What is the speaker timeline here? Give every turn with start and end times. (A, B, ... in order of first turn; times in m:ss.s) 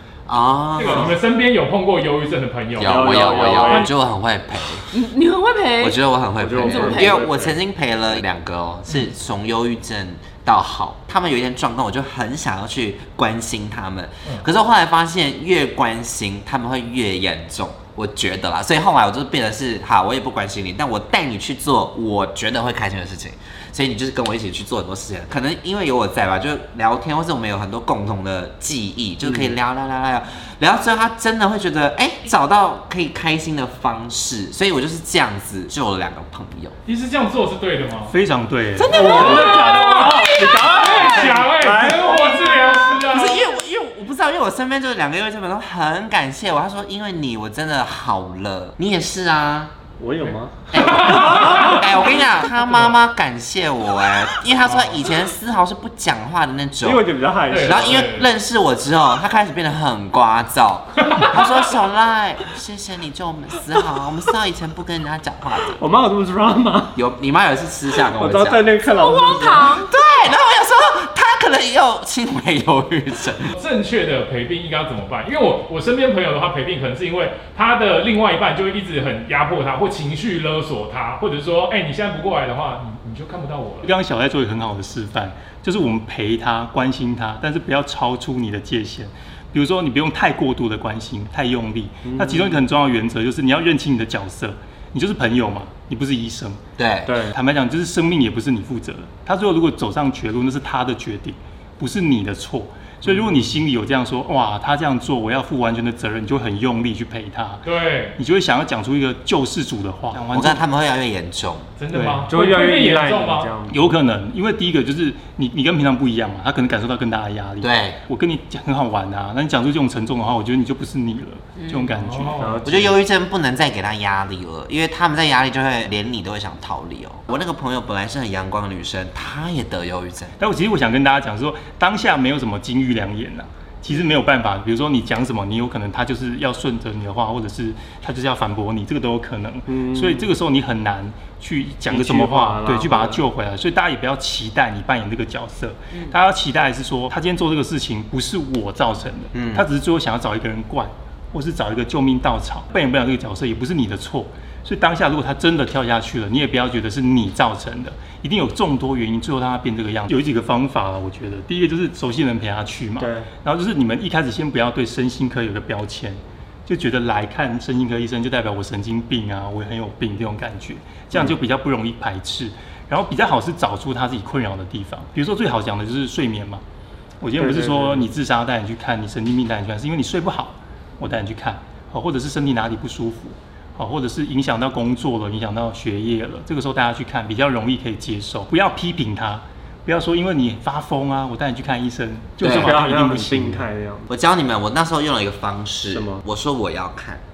0:00.3-0:01.1 A
0:00.8-0:03.9 B
0:02.8-0:05.0 A
0:02.8-0:03.9 C
0:04.9-0:06.0 D
0:05.8-0:36.8 A
0:06.4-0:07.6 C
0:06.6-0:07.2 D
0:29.2-0:29.5 C
0:36.8-0:38.1 B
0:38.1-0:39.2 E
0:38.8-0:41.2 A
0:38.8-0:42.8 C
0:39.0-0:43.5 B
0:43.0-0:49.8 A
0:50.0-0:52.0 C
0:50.7-1:05.8 A
0:50.7-0:51.9 B
0:54.7-0:55.0 B
0:56.8-0:58.0 C
0:57.5-0:58.3 B
1:01.1-1:01.4 B
1:05.8-1:07.0 C
1:06.9-1:08.6 A
1:08.2-1:09.8 C
1:08.8-1:09.9 D
1:09.7-1:13.5 A
1:13.5-1:23.9 B
1:23.8-1:36.6 E
1:32.0-1:32.6 C
1:36.8-1:37.1 A
1:37.0-1:37.4 C
1:37.3-1:50.6 E
1:43.0-1:43.4 C
1:47.6-1:48.2 B
1:50.3-1:51.7 A
1:51.8-1:53.5 B
1:51.9-1:52.3 E
1:52.3-1:54.0 C
1:53.7-2:02.5 E
1:57.6-1:58.0 A
2:01.6-2:02.0 D
2:02.0-2:02.6 B
2:02.4-2:03.0 C
2:02.6-2:10.3 A
2:10.4-2:56.6 E
2:19.7-2:20.3 C
2:21.9-2:23.2 C
2:29.3-2:29.6 A
2:43.0-2:43.3 C
2:57.2-3:13.6 E
2:57.4-2:58.1 C
3:12.4-3:12.8 A
3:12.4-3:14.1 C
3:14.1-3:17.2 A
3:15.9-3:16.2 C